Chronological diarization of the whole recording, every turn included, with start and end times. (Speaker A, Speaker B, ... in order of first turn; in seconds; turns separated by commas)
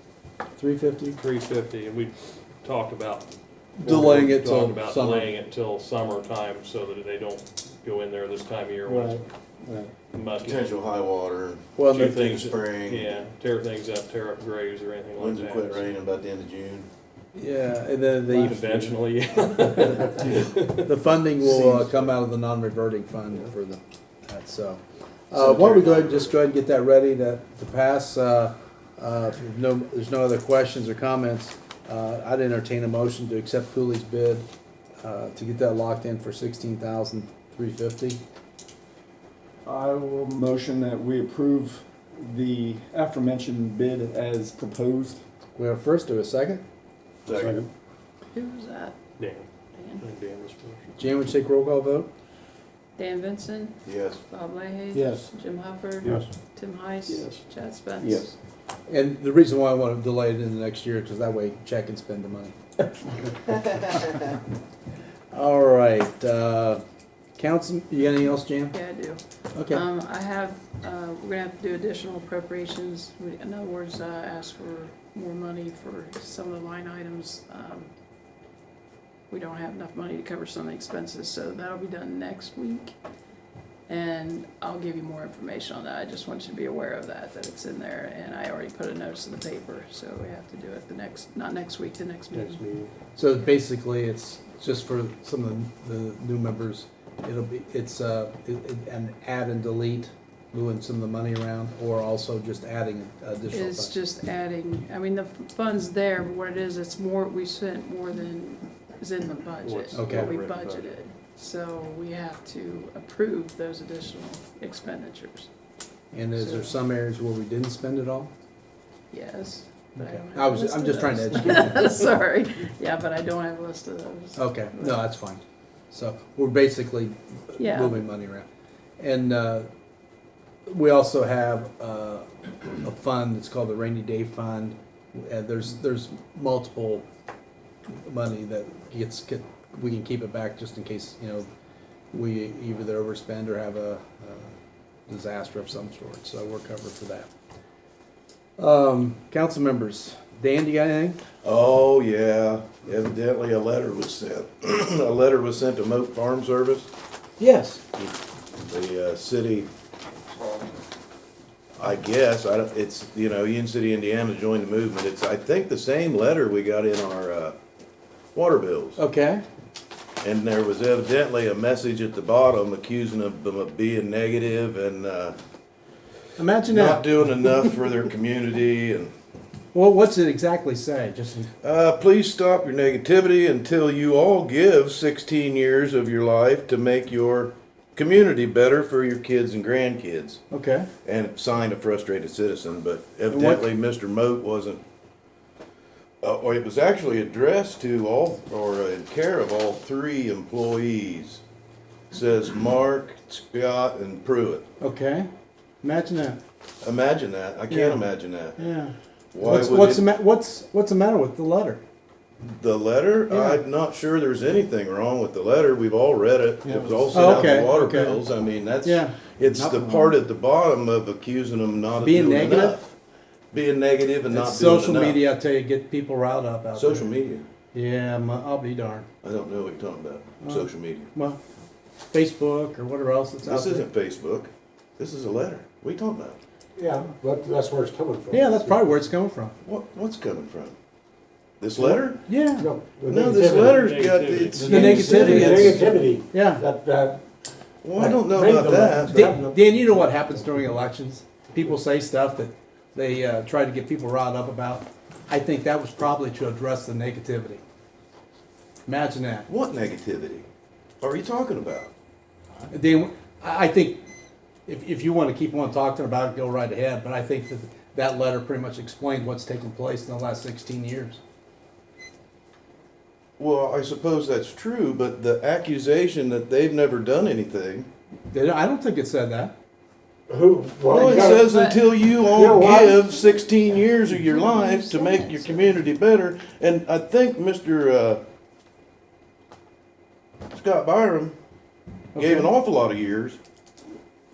Speaker A: 0.6-1.2, Speaker B: 1.1-3.3, Speaker A: 3.8-5.3, Speaker C: 3.8-4.1, Speaker B: 3.8-9.2, Speaker C: 8.8-9.9, Speaker B: 10.1-10.6, Speaker D: 10.4-13.1, Speaker A: 11.8-12.1, Speaker B: 11.8-15.8, Speaker D: 15.2-16.9, Speaker A: 17.3-18.7, Speaker B: 18.3-20.9, Speaker A: 20.8-34.5, Speaker D: 21.4-22.1, Speaker D: 25.3-26.4, Speaker A: 35.0-38.2, Speaker C: 39.6-45.2, Speaker A: 45.5-46.6, Speaker D: 47.2-47.6, Speaker C: 47.3-47.7, Speaker E: 48.3-49.0, Speaker B: 49.2-49.5, Speaker E: 49.7-50.0, Speaker B: 50.0-50.9, Speaker A: 51.0-52.1, Speaker E: 53.0-58.3, Speaker D: 53.9-54.2, Speaker C: 54.9-55.3, Speaker B: 57.1-57.4, Speaker C: 58.0-58.3, Speaker A: 58.9-62.5, Speaker A: 63.9-64.2, Speaker A: 65.3-66.8, Speaker A: 67.4-68.7, Speaker E: 68.7-77.9, Speaker A: 69.5-69.8, Speaker E: 79.3-82.9, Speaker E: 83.9-92.8, Speaker A: 93.2-103.9, Speaker E: 103.5-115.5, Speaker B: 109.6-110.9, Speaker A: 109.9-110.3, Speaker A: 116.1-118.3, Speaker E: 116.4-116.7, Speaker E: 119.1-125.0, Speaker A: 120.0-121.9, Speaker A: 124.3-125.4, Speaker A: 125.9-128.4, Speaker E: 127.6-128.1, Speaker A: 129.0-129.7, Speaker A: 130.7-132.2, Speaker A: 132.8-137.1, Speaker A: 137.9-141.5, Speaker A: 142.1-144.5, Speaker A: 145.1-147.3, Speaker A: 148.6-151.2, Speaker D: 151.4-156.9, Speaker A: 157.4-157.8, Speaker D: 158.6-159.7, Speaker D: 161.8-167.5, Speaker D: 168.3-169.0, Speaker A: 169.0-169.4, Speaker D: 170.2-175.3, Speaker A: 176.4-177.4, Speaker D: 176.7-179.1, Speaker A: 179.7-181.5, Speaker D: 181.6-190.4, Speaker A: 190.5-190.9, Speaker D: 191.0-194.8, Speaker A: 193.3-193.6, Speaker D: 196.2-201.4, Speaker D: 202.1-204.6, Speaker A: 204.8-205.3, Speaker A: 205.8-206.4, Speaker D: 206.8-208.6, Speaker A: 207.7-208.0, Speaker A: 208.6-211.8, Speaker D: 209.3-210.1, Speaker D: 212.4-222.9, Speaker A: 213.3-213.6, Speaker F: 216.8-217.5, Speaker A: 217.1-218.2, Speaker A: 218.8-220.1, Speaker A: 222.0-222.8, Speaker D: 223.5-225.2, Speaker A: 224.3-227.1, Speaker D: 226.7-227.5, Speaker A: 227.7-229.1, Speaker D: 229.2-231.1, Speaker A: 230.4-231.4, Speaker A: 232.1-233.8, Speaker D: 233.4-236.4, Speaker F: 236.8-238.8, Speaker A: 238.3-239.5, Speaker D: 239.6-240.7, Speaker D: 241.6-242.2, Speaker A: 242.3-242.7, Speaker F: 242.6-243.8, Speaker D: 243.1-245.9, Speaker B: 243.6-245.2, Speaker F: 244.6-247.2, Speaker A: 244.6-246.6, Speaker D: 247.8-249.4, Speaker F: 248.0-250.3, Speaker A: 249.1-257.6, Speaker A: 258.9-259.5, Speaker D: 259.5-260.4, Speaker D: 261.0-261.9, Speaker A: 262.7-264.0, Speaker A: 264.7-271.2, Speaker D: 273.4-277.9, Speaker A: 278.3-279.5, Speaker F: 280.3-281.5, Speaker E: 280.9-281.9, Speaker D: 280.9-288.2, Speaker F: 282.3-283.1, Speaker E: 284.2-285.8, Speaker D: 290.5-291.3, Speaker A: 292.1-292.5, Speaker D: 292.1-293.4